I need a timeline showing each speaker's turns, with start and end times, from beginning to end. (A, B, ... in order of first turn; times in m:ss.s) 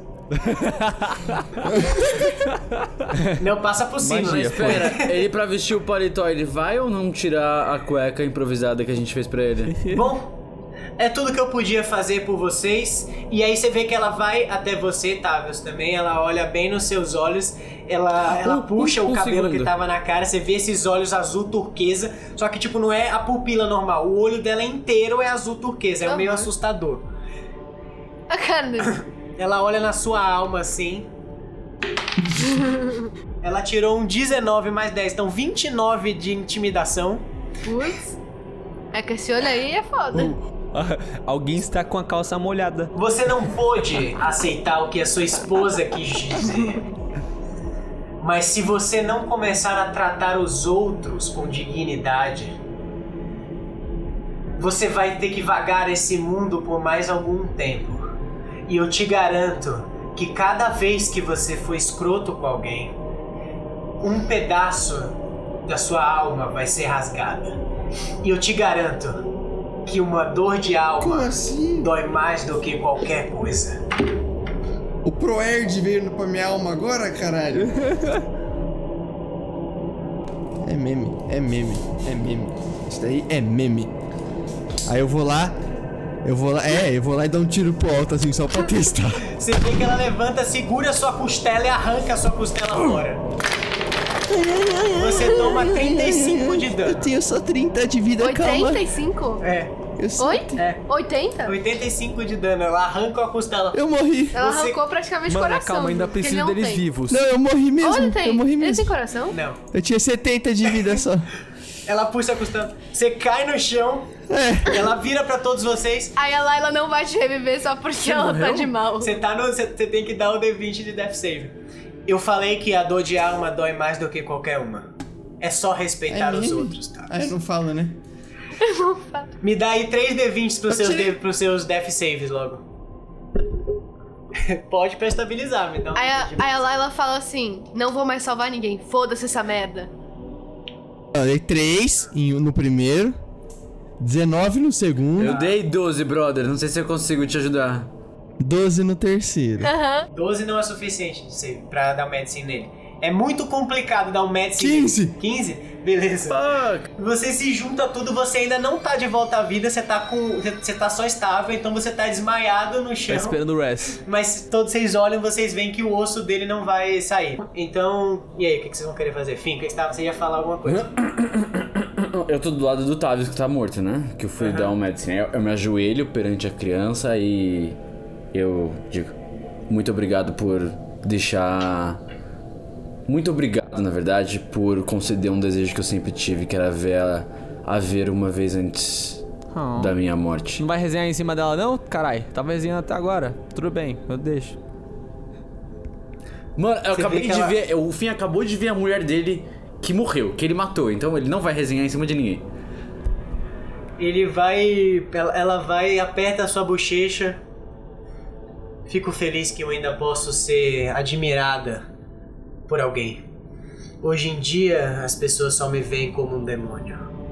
0:00.3-0:03.3 A
0:03.4-0:05.2 B
0:04.0-0:05.0 A
0:04.2-0:09.8 C
0:09.7-0:10.1 A
0:09.9-0:10.3 B
0:11.0-0:27.0 B
0:18.3-0:19.7 C
0:26.0-0:26.5 D
0:28.3-0:29.0 D
0:28.9-0:31.1 B
0:32.5-0:33.1 D
0:33.4-0:37.2 B
0:37.6-0:38.2 D
0:38.9-0:40.3 D
0:40.1-0:42.9 A
0:42.9-0:46.8 B
0:48.2-0:52.6 B
0:54.6-0:58.2 B
0:58.7-1:02.9 B
1:04.0-1:07.6 B
1:08.2-1:09.2 B
1:09.8-1:13.8 B
1:11.0-1:11.9 E
1:15.0-1:17.9 E
1:17.8-1:18.2 A
1:20.6-1:23.9 E
1:24.8-1:25.6 E
1:26.2-1:29.2 E
1:29.3-1:33.2 B
1:34.3-1:38.9 E
1:34.9-1:37.1 B
1:38.2-1:39.4 D
1:39.4-1:39.7 B
1:40.0-1:40.6 E
1:40.2-1:41.6 D
1:40.6-1:40.8 B
1:41.4-1:43.8 B
1:43.7-1:44.4 E
1:44.3-1:44.8 B
1:44.3-1:46.8 D
1:45.3-1:47.2 A
1:47.1-1:49.0 E
1:47.8-1:49.4 D
1:49.3-1:49.6 B
1:49.7-1:51.3 E
1:51.8-1:54.1 B
1:54.3-1:54.9 E
1:54.6-1:56.2 B
1:56.2-1:59.2 D
1:58.0-1:58.7 C
1:59.0-2:01.5 B
2:02.1-2:07.3 B
2:06.1-2:08.0 E
2:08.6-2:09.3 D
2:09.4-2:12.6 B
2:10.7-2:11.1 E
2:14.4-2:16.7 B
2:15.9-2:19.9 D
2:21.1-2:23.2 E
2:24.0-2:25.4 E
2:25.2-2:27.9 C
2:25.2-2:25.6 B
2:28.4-2:29.7 E
2:29.6-2:30.1 D
2:30.1-2:43.4 B
2:34.6-2:35.1 E
2:36.3-2:36.9 C
2:43.1-2:44.0 A
2:44.0-2:50.9 B
2:50.6-2:57.8 C
2:54.4-2:54.7 B
2:58.3-2:59.1 C
2:59.7-3:02.0 C
3:03.1-3:09.2 C
3:09.5-3:09.9 A
3:09.7-3:10.6 C
3:10.6-3:14.6 A
3:16.6-3:22.4 C
3:16.9-3:17.6 B
3:24.0-3:27.4 B
3:28.9-3:31.8 B
3:32.7-3:33.2 B
3:34.0-3:37.1 B